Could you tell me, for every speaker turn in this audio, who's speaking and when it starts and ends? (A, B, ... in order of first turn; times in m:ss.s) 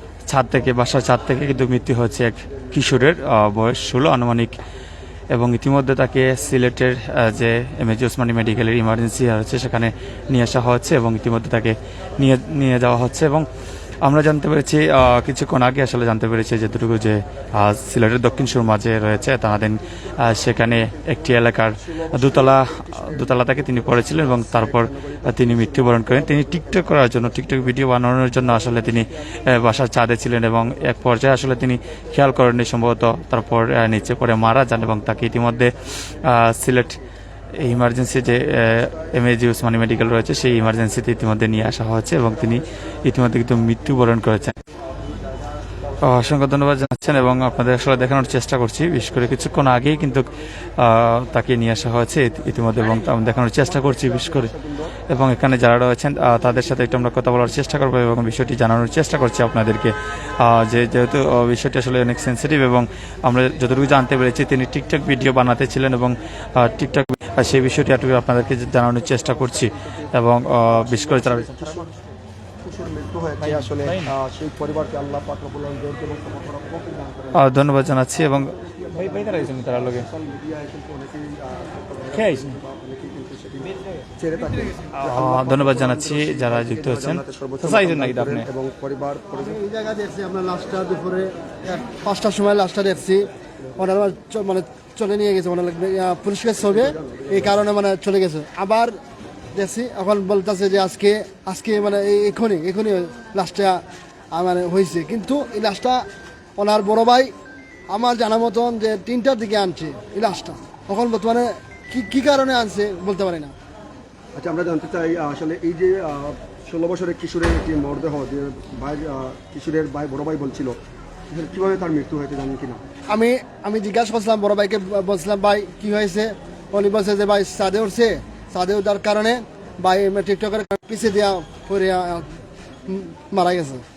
0:00.3-0:04.6 A
0:05.3-0:13.5 A
0:14.0-0:37.0 A
0:20.2-0:21.2 B
0:21.8-0:27.2 B
0:37.6-0:44.6 A
0:46.0-0:54.5 A
0:53.8-0:54.8 B
0:55.1-1:11.9 A
1:09.1-1:10.1 B
1:10.6-1:12.0 B
1:12.6-1:17.4 B
1:13.4-1:14.1 A
1:17.3-1:20.0 A
1:18.6-1:29.6 B
1:22.1-1:22.6 A
1:25.0-1:28.5 A
1:29.5-1:39.0 C
1:36.7-1:37.6 B
1:39.5-1:46.0 C
1:46.6-1:47.3 C
1:47.9-1:53.5 C
1:54.3-2:00.8 B
2:01.3-2:02.8 B
2:03.1-2:12.3 C
2:12.9-2:13.8 C